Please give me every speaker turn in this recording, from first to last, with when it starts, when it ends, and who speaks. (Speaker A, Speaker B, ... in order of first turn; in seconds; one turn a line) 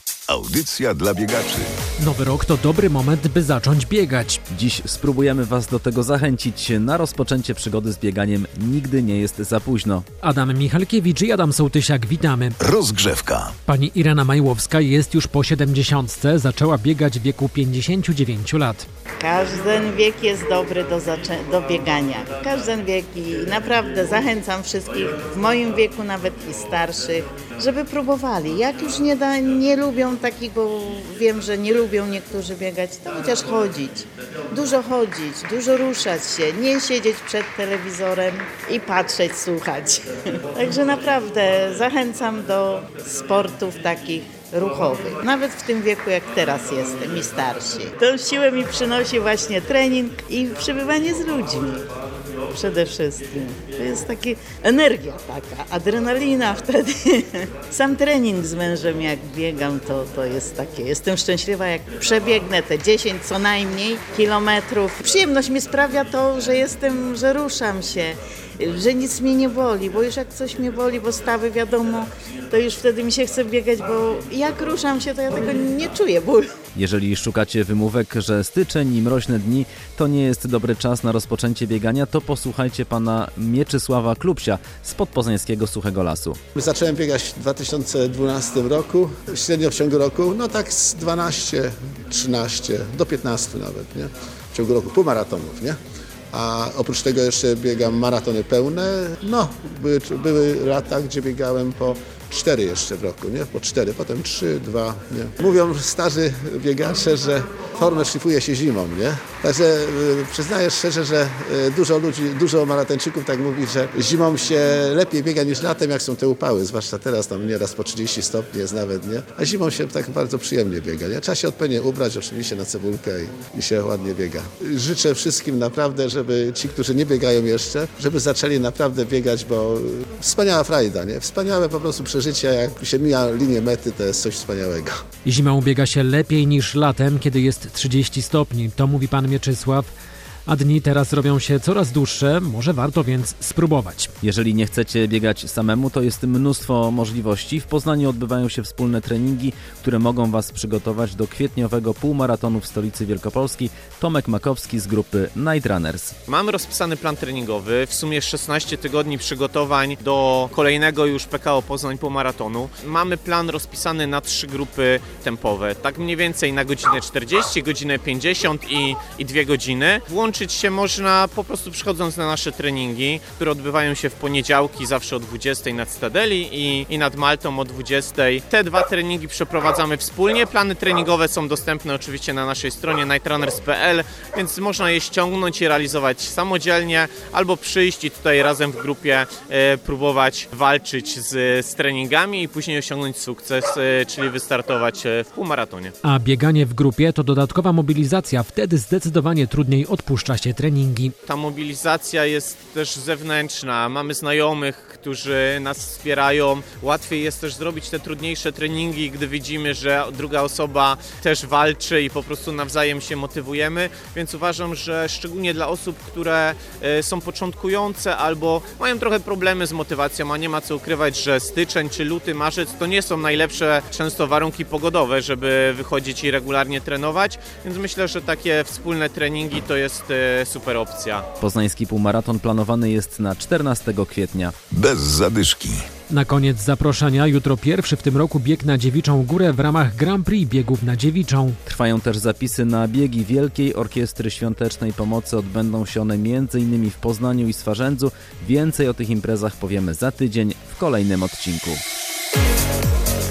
Speaker A: 0.3-1.7
Speaker B: 2.0-4.4
Speaker C: 4.5-10.1
Speaker B: 10.2-12.6
Speaker A: 12.6-13.5
Speaker B: 13.7-18.9
Speaker D: 19.2-40.0
Speaker D: 40.5-51.9
Speaker D: 52.5-76.5
Speaker C: 76.7-86.4
Speaker E: 86.5-95.8
Speaker E: 96.3-135.0
Speaker B: 135.2-139.9
Speaker B: 140.5-144.1
Speaker C: 144.2-156.1
Speaker F: 156.3-195.9
Speaker B: 196.0-201.1
Speaker F: 201.3-231.2
Speaker C: 231.4-234.5
Speaker A: 234.7-235.8
Speaker B: 236.1-241.6
Speaker C: 241.7-251.8